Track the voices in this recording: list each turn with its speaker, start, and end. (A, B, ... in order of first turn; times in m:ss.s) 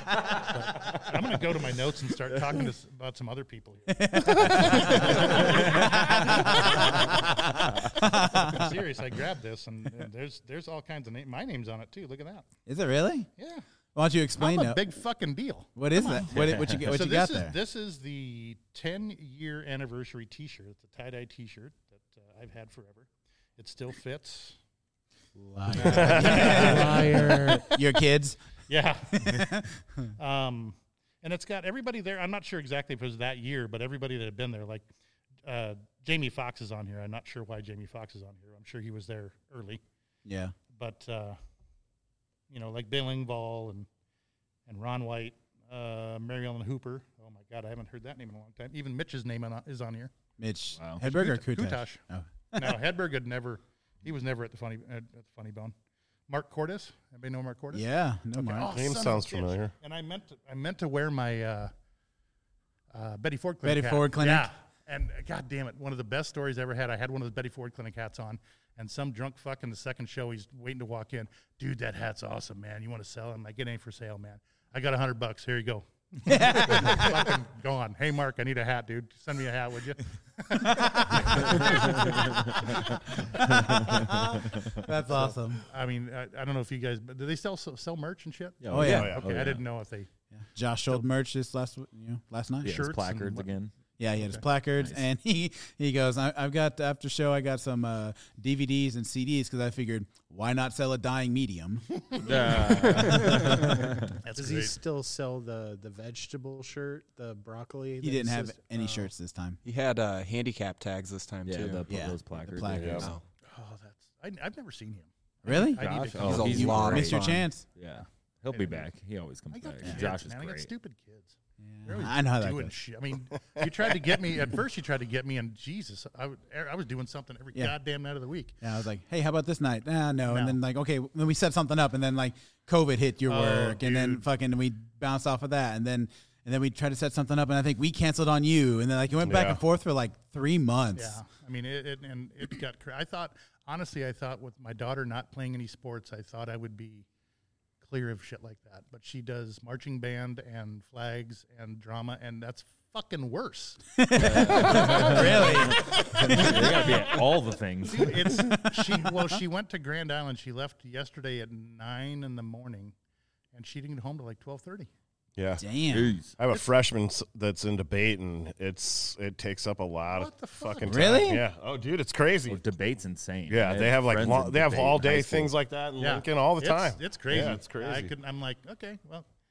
0:00.2-0:07.4 A
0:04.0-0:08.8 B
0:08.0-0:12.5 A
0:12.7-0:13.3 B
0:13.4-0:13.6 A
0:14.0-0:14.9 B
0:14.4-0:24.6 A
0:15.8-0:17.6 B
0:16.3-0:16.9 C
0:25.4-0:28.4 B
0:25.7-0:27.6 A
0:26.0-0:27.7 D
0:26.0-0:26.6 E
0:28.7-0:29.4 A
0:29.1-0:30.1 B
0:30.2-0:34.9 A
0:35.4-0:39.8 A
0:40.2-0:40.6 B
0:40.7-0:41.4 A
0:42.5-0:43.9 A
0:44.7-0:50.1 A
0:50.4-0:52.8 B
0:51.0-0:52.0 A
0:52.5-0:55.7 A
0:56.3-0:57.8 A
0:57.7-0:58.8 B
0:58.4-1:01.7 A
0:58.7-0:59.7 E
1:02.9-1:22.8 A
1:03.6-1:04.5 B
1:16.3-1:17.3 B
1:20.6-1:21.7 B
1:23.4-1:23.9 A
1:23.4-1:24.7 C
1:23.4-1:25.6 B
1:25.0-1:30.1 A
1:28.6-1:29.6 C
1:28.7-1:29.2 B
1:28.8-1:29.2 E
1:30.4-1:32.8 B
1:32.6-1:33.6 A
1:32.6-1:33.7 C
1:34.0-1:42.0 B
1:34.2-1:34.4 A
1:42.2-1:44.1 C
1:44.2-1:44.8 A
1:44.3-1:49.1 D
1:48.0-1:49.6 B
1:49.6-1:51.8 F
1:51.4-1:53.1 C
1:51.9-1:53.1 B
1:52.8-1:53.1 E
1:53.5-1:56.8 A
1:55.4-1:57.6 B
1:55.8-2:00.7 C
1:56.2-1:57.4 F
1:58.0-1:58.9 A
1:59.5-2:08.6 A
2:01.7-2:02.7 B
2:08.6-2:21.2 B
2:10.3-2:10.6 A
2:13.3-2:14.2 A
2:19.2-2:19.6 E
2:21.0-2:27.1 A
2:27.8-2:33.8 A
2:34.0-2:36.9 B
2:34.2-2:38.2 C
2:34.6-2:35.5 A
2:37.9-2:43.0 A
2:38.4-2:39.2 B
2:43.5-2:44.9 A
2:45.4-2:45.7 E
2:45.6-2:46.2 B
2:45.9-2:46.3 C
2:46.4-2:52.6 E
2:50.1-2:51.3 A
2:50.8-2:51.4 B
2:52.5-2:55.5 C
2:53.5-2:58.1 E
2:56.0-2:59.3 A